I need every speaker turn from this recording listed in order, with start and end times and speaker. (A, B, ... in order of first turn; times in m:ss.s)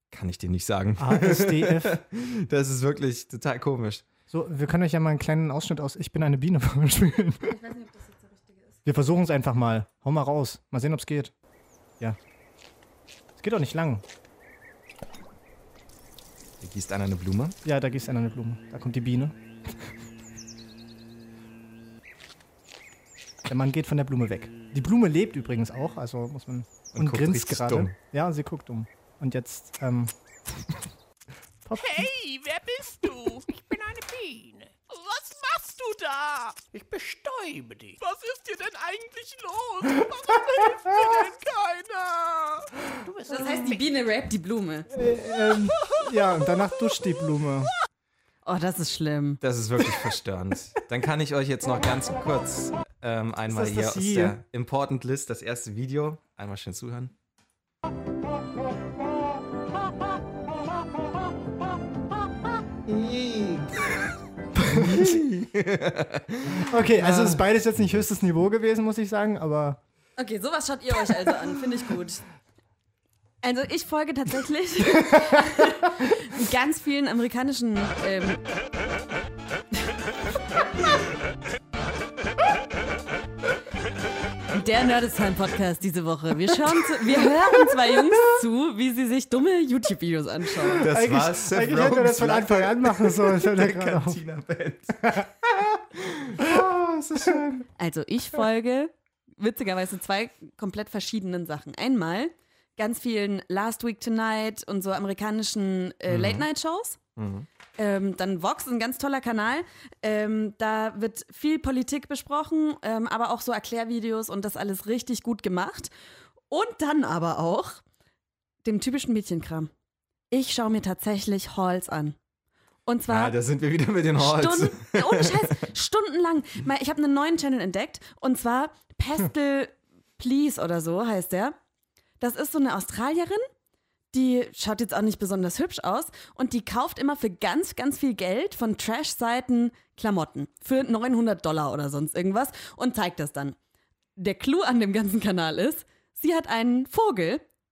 0:00.1-0:04.0 A
0:01.0-0:02.0 B
0:04.3-0:07.5 B
0:07.4-0:08.8 C
0:08.8-0:11.3 B
0:13.4-0:14.0 B
0:16.6-0:17.6 A
0:17.6-0:19.4 B
0:23.4-0:30.1 B
0:26.9-0:27.9 A
0:31.6-0:32.1 B
0:31.7-0:44.0 D
0:43.3-0:44.9 C
0:44.9-0:47.7 B
0:48.4-0:49.4 C
0:49.4-0:57.1 A
0:53.5-0:54.4 B
1:02.9-1:03.9 A
1:04.5-1:05.2 B
1:04.6-1:08.0 A
1:06.6-1:09.8 B
1:10.2-1:12.2 C
1:13.4-1:18.4 C
1:15.1-1:15.3 B
1:24.5-1:30.8 C
1:30.8-1:35.2 A
1:30.8-1:34.2 B
1:35.0-1:35.8 B
1:36.1-1:37.5 A
1:36.4-1:37.6 B
1:37.8-1:47.0 C
1:46.1-1:46.4 A
1:47.2-1:47.5 A
1:47.8-1:55.9 C
1:56.5-1:57.8 C
1:58.6-1:59.7 C
2:00.3-2:02.2 C
2:02.8-2:03.4 C
2:03.1-2:05.5 A
2:04.2-2:11.6 C
2:12.2-2:13.4 C
2:14.1-2:23.6 C
2:24.2-2:27.4 C